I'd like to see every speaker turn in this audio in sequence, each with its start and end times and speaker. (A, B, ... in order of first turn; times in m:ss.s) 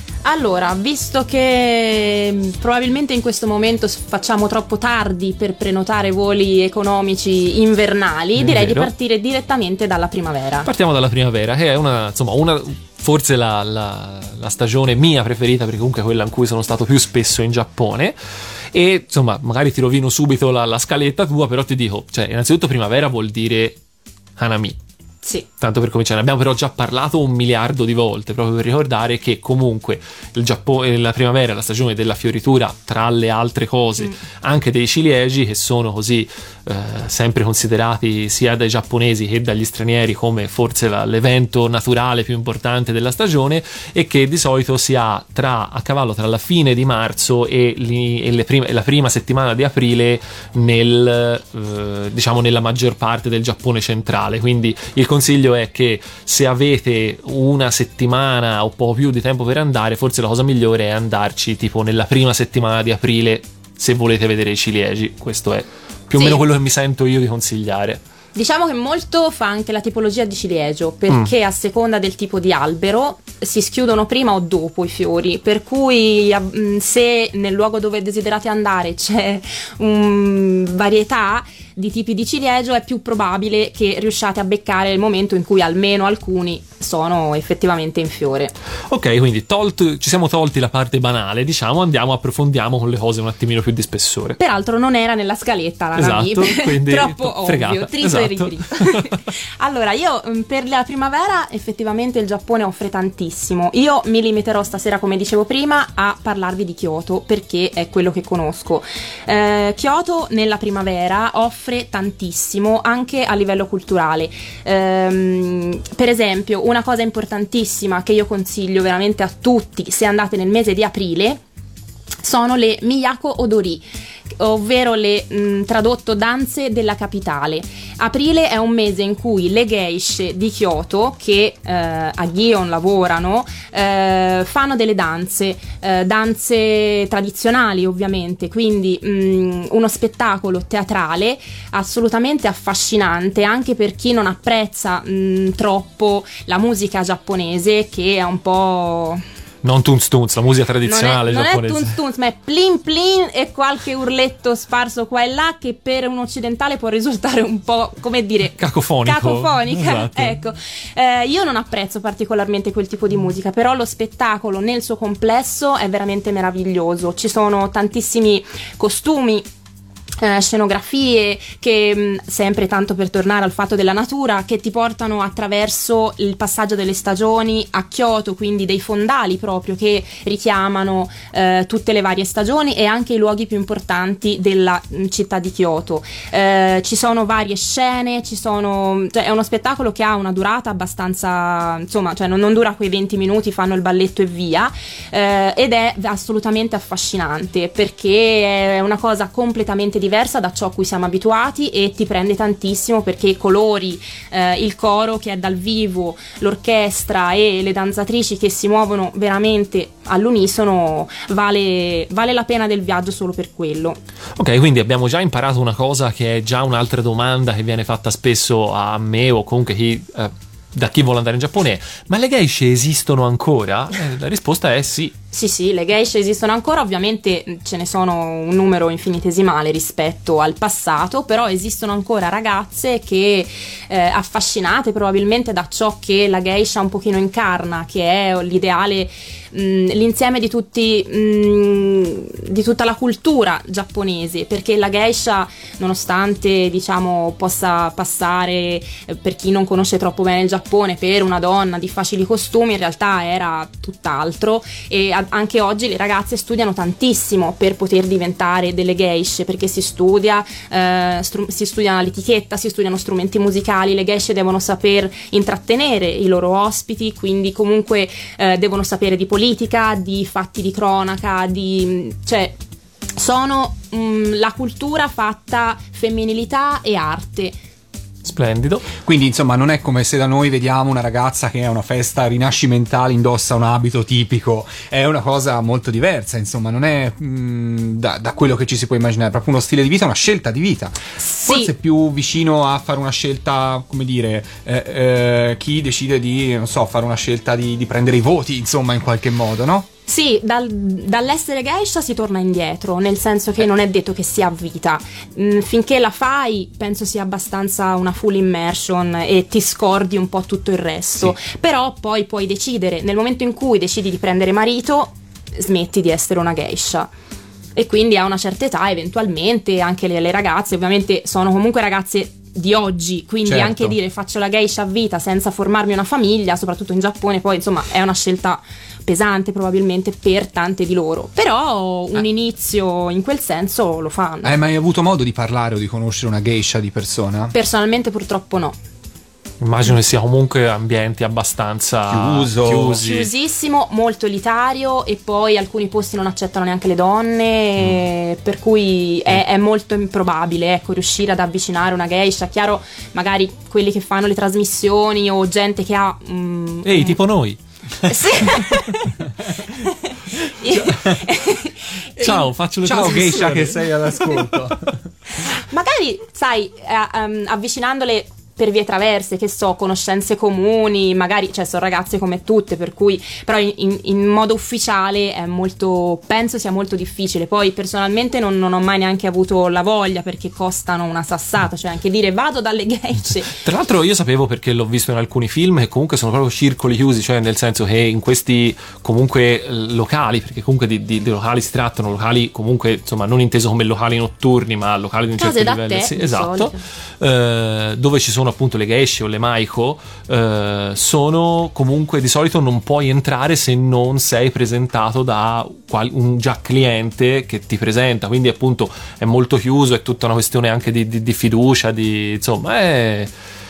0:00.2-0:10.7 A
0:08.4-0:08.9 B
0:10.6-0:18.2 B
0:18.7-0:23.8 B
0:24.4-0:24.8 B
0:25.6-1:08.0 B
1:06.2-1:06.4 A
1:08.4-1:28.5 A
1:28.9-1:34.4 B
1:34.4-2:01.4 A
1:36.0-1:39.2 B
2:02.2-2:03.8 A
2:04.4-2:29.2 A
2:29.6-2:32.0 B
2:30.9-2:49.5 A
2:38.6-2:40.4 B
2:50.2-3:34.0 A
3:34.4-3:45.2 B
3:45.3-4:32.6 A
4:33.2-4:37.6 A
4:38.2-4:38.9 B
4:39.0-4:59.9 C
4:51.2-4:51.7 A
5:00.1-5:17.1 A
5:17.8-5:34.6 A
5:23.4-5:24.0 C
5:34.4-5:37.5 C
5:37.5-5:38.8 A
5:39.6-5:43.3 B
5:42.1-5:43.0 C
5:43.0-5:57.2 A
5:56.8-5:58.7 B
5:58.1-6:02.5 A
6:02.2-6:03.8 B
6:02.8-6:05.0 C
6:05.4-6:23.5 A
6:23.6-6:53.3 B
6:35.4-6:36.8 A